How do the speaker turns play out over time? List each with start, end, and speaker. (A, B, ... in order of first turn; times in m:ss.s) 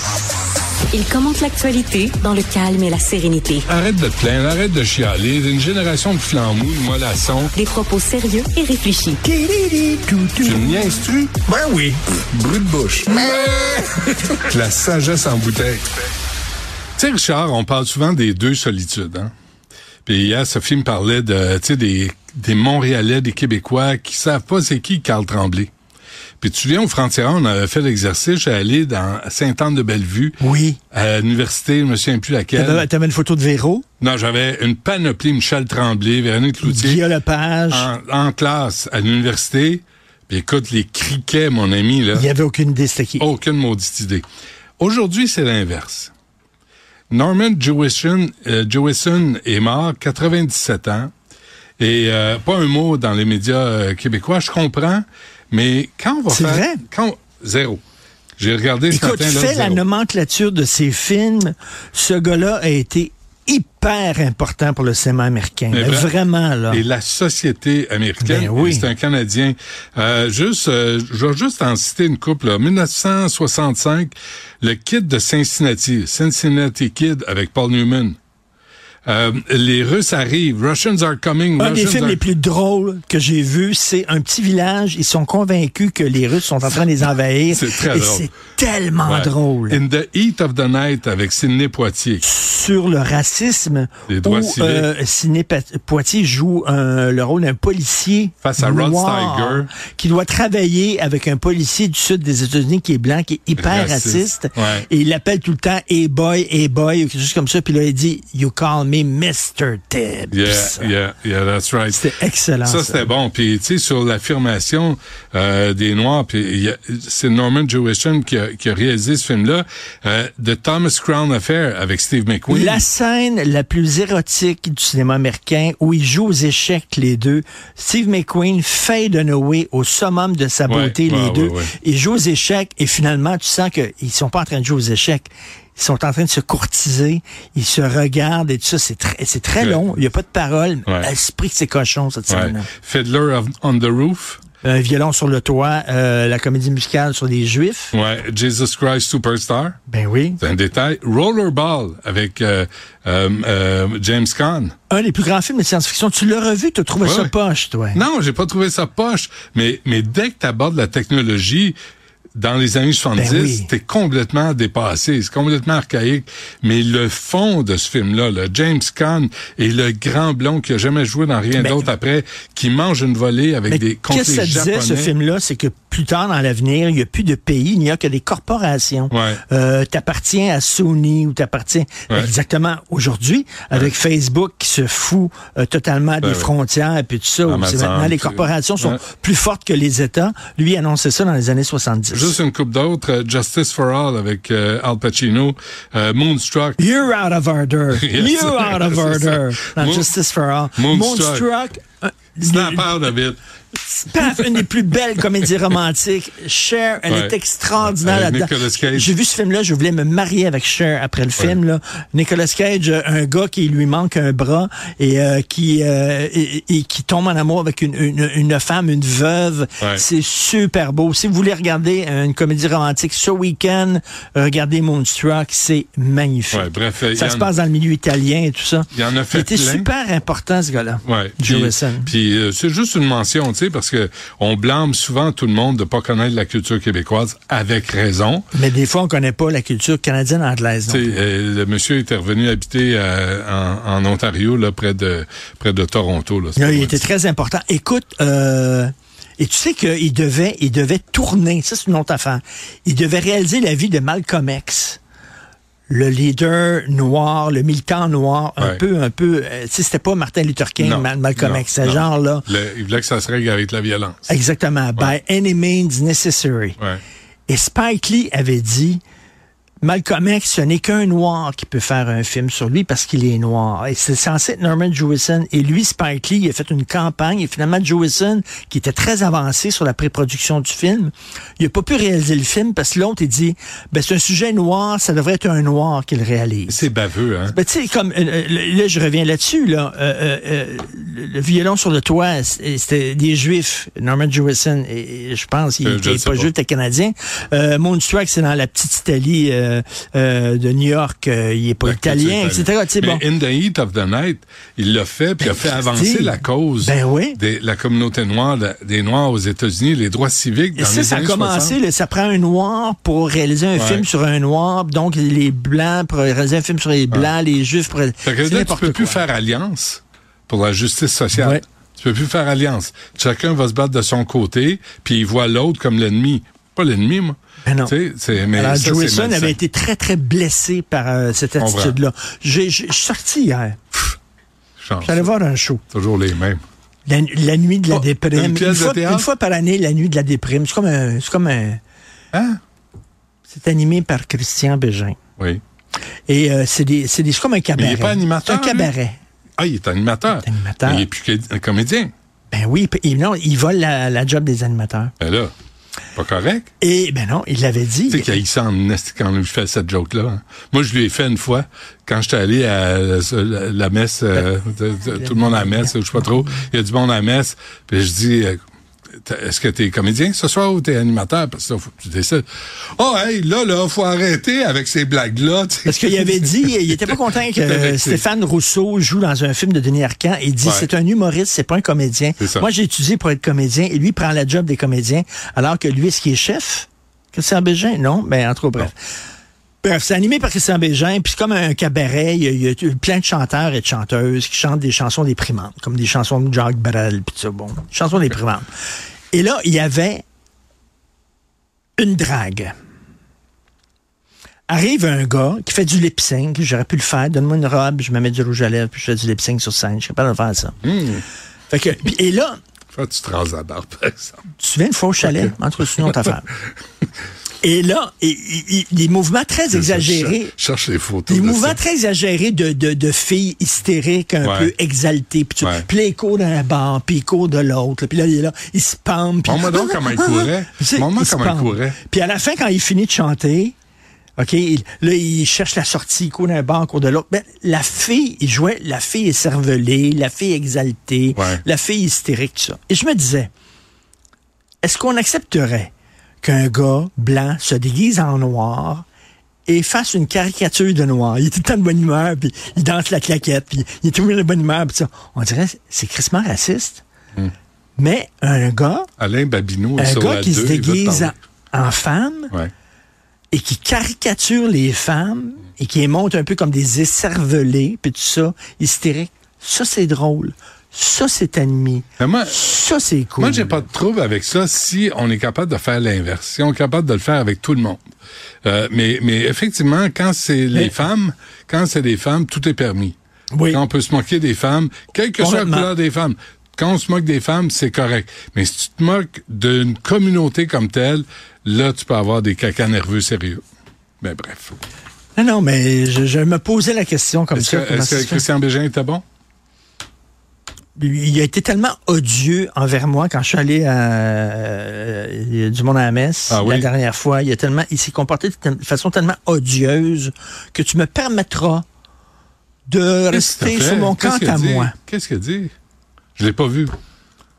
0:00.9-0:03.6 A
0:03.7-0:07.5 B
0:07.5-0:09.2 A
0:09.2-0:10.8 C
0:10.4-0:11.4 B
0:11.4-0:12.0 C
0:12.3-0:15.9 B
0:17.0-0:19.3 B
0:20.0-0:25.7 B
0:26.4-0:30.4 B
0:30.4-0:30.8 C
0:30.9-0:32.9 B
0:32.5-0:33.8 C
0:34.0-0:37.0 B
0:36.6-0:37.9 C
0:37.7-0:42.3 B
0:42.1-0:43.3 C
0:43.2-0:44.2 B
0:44.8-0:46.1 B
0:47.1-0:51.1 B
0:51.8-0:57.8 B
0:56.3-0:56.8 C
0:58.4-0:59.8 B
0:58.9-1:06.8 C
1:05.7-1:06.1 B
1:06.7-1:18.2 B
1:08.2-1:08.9 C
1:19.0-1:22.2 B
1:21.6-1:29.8 C
1:27.5-1:28.3 B
1:29.0-1:32.2 B
1:32.2-1:50.9 C
1:34.1-1:34.9 B
1:38.4-1:39.7 B
1:43.6-1:44.9 B
1:50.3-1:52.1 B
1:51.9-1:53.1 C
1:52.6-2:02.8 B
2:02.5-2:22.7 C
2:10.7-2:11.7 B
2:19.6-2:19.8 B
2:22.3-2:24.4 B
2:24.6-2:27.9 C
2:27.9-2:29.8 B
2:29.9-2:30.4 C
2:30.4-2:34.7 B
2:34.9-2:38.0 C
2:37.0-2:37.3 B
2:37.9-2:41.8 B
2:42.3-2:55.1 B
2:43.1-2:43.7 C
2:51.6-2:51.9 C
2:53.7-3:12.4 C
2:59.1-2:59.4 B
3:06.2-3:06.5 B
3:07.4-3:09.0 B
3:12.1-3:16.8 B
3:16.8-3:22.9 C
3:17.9-3:20.1 B
3:20.7-3:21.5 B
3:22.4-3:23.4 B
3:23.8-3:52.1 C
3:24.2-3:24.6 B
3:27.1-3:29.1 B
3:46.5-3:47.5 B
3:48.9-3:49.9 B
3:51.0-3:58.5 B
3:58.5-4:01.2 C
4:00.9-4:07.1 B
4:06.6-4:15.0 C
4:15.9-4:22.5 C
4:20.8-4:24.3 B
4:24.3-4:26.8 C
4:27.5-4:29.0 C
4:29.8-4:46.8 C
4:46.7-4:47.6 B
4:47.5-5:03.2 C
4:55.8-4:56.5 B
5:01.8-5:11.8 B
5:05.4-5:07.4 C
5:10.8-5:19.2 C
5:13.7-5:14.0 B
5:18.2-5:29.6 B
5:21.3-5:21.6 C
5:27.6-5:28.0 C
5:28.5-5:34.1 C
5:31.6-5:32.0 B
5:34.8-5:35.3 B
5:35.0-5:35.8 C
5:35.9-5:36.6 B
5:37.0-5:41.8 C
5:37.9-5:39.3 B
5:42.3-5:42.6 B
5:43.5-5:45.2 C
5:46.3-5:49.2 C
5:47.8-5:48.9 B
5:49.6-5:52.1 B
5:50.4-5:51.1 C
5:52.5-5:55.1 C
5:55.2-5:55.5 B
5:56.2-5:56.7 B
5:56.8-5:58.4 C
5:58.1-6:08.6 B
6:05.1-6:06.6 C
6:09.2-6:12.4 B
6:12.9-6:18.2 B
6:15.8-6:29.0 C
6:20.6-6:20.9 B
6:22.4-6:22.7 B
6:29.8-6:38.7 C
6:39.3-6:40.2 C
6:42.0-6:42.7 C
6:44.7-6:50.8 C
6:50.8-6:51.2 B
6:51.7-6:52.6 C
6:52.9-6:54.4 B
6:54.6-6:56.5 C
6:55.2-6:56.3 B
6:57.6-7:00.5 C
6:59.7-7:01.8 B
7:01.3-7:13.8 C
7:04.4-7:04.7 B
7:05.6-7:05.9 B
7:09.4-7:12.0 B
7:14.4-7:23.5 C
7:21.4-7:21.6 B
7:24.8-7:29.0 C
7:29.6-7:37.0 C
7:38.0-7:39.1 C
7:39.2-7:41.3 B
7:40.0-7:42.5 C
7:43.5-7:53.8 C
7:52.2-7:52.6 B
7:53.4-7:58.0 B
7:58.6-8:03.2 B
8:03.5-8:03.8 C
8:03.7-8:13.6 B
8:05.4-8:05.9 C
8:14.2-8:14.8 B
8:15.4-8:18.4 C
8:17.5-8:19.2 B
8:21.0-8:31.8 C
8:26.5-8:26.9 B
8:32.9-8:34.9 C
8:33.3-8:35.7 B
8:36.4-8:36.9 B